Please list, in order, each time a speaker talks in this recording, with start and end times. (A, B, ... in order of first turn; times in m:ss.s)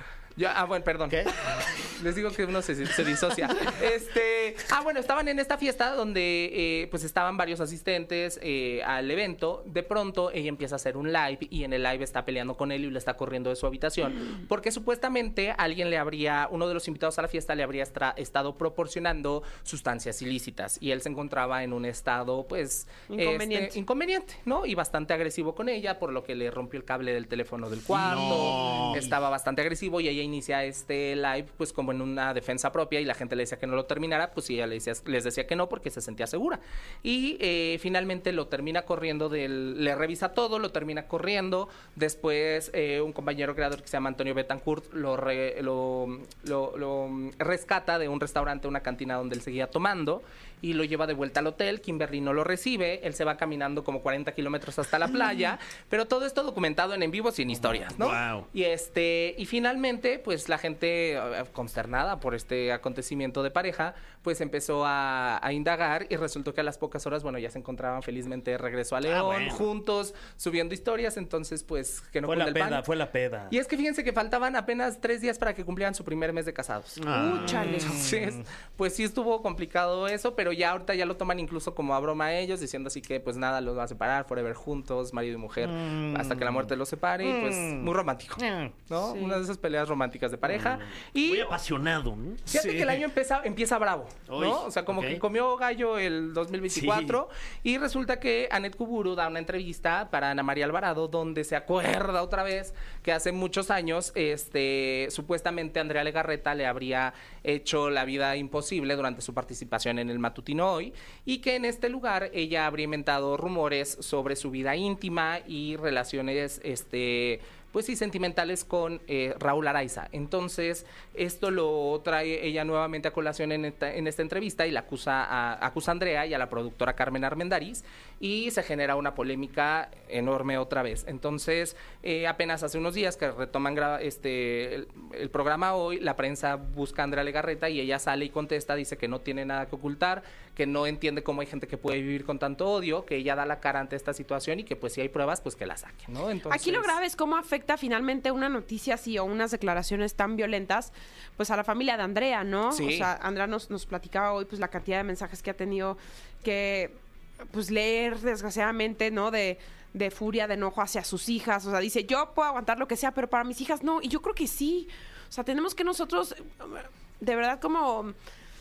0:00.4-1:12.8 A
0:01.1-0:01.3 B
0:23.1-0:23.8 C
0:27.9-0:29.0 D
0:28.0-0:29.1 B
0:57.9-0:58.5 D
1:09.1-1:09.6 D
1:12.2-1:13.5 B
1:13.5-1:17.1 A
1:17.0-1:17.8 D
1:17.1-1:18.0 C
1:17.2-1:18.4 B
1:17.8-1:31.5 A
1:25.6-1:28.7 B
1:30.5-1:32.5 D
1:32.5-2:26.9 A
1:32.5-1:33.0 B
1:34.3-1:35.2 D
1:36.7-1:37.2 B
2:26.5-2:37.0 C
2:32.7-2:33.1 A
2:37.5-2:48.1 C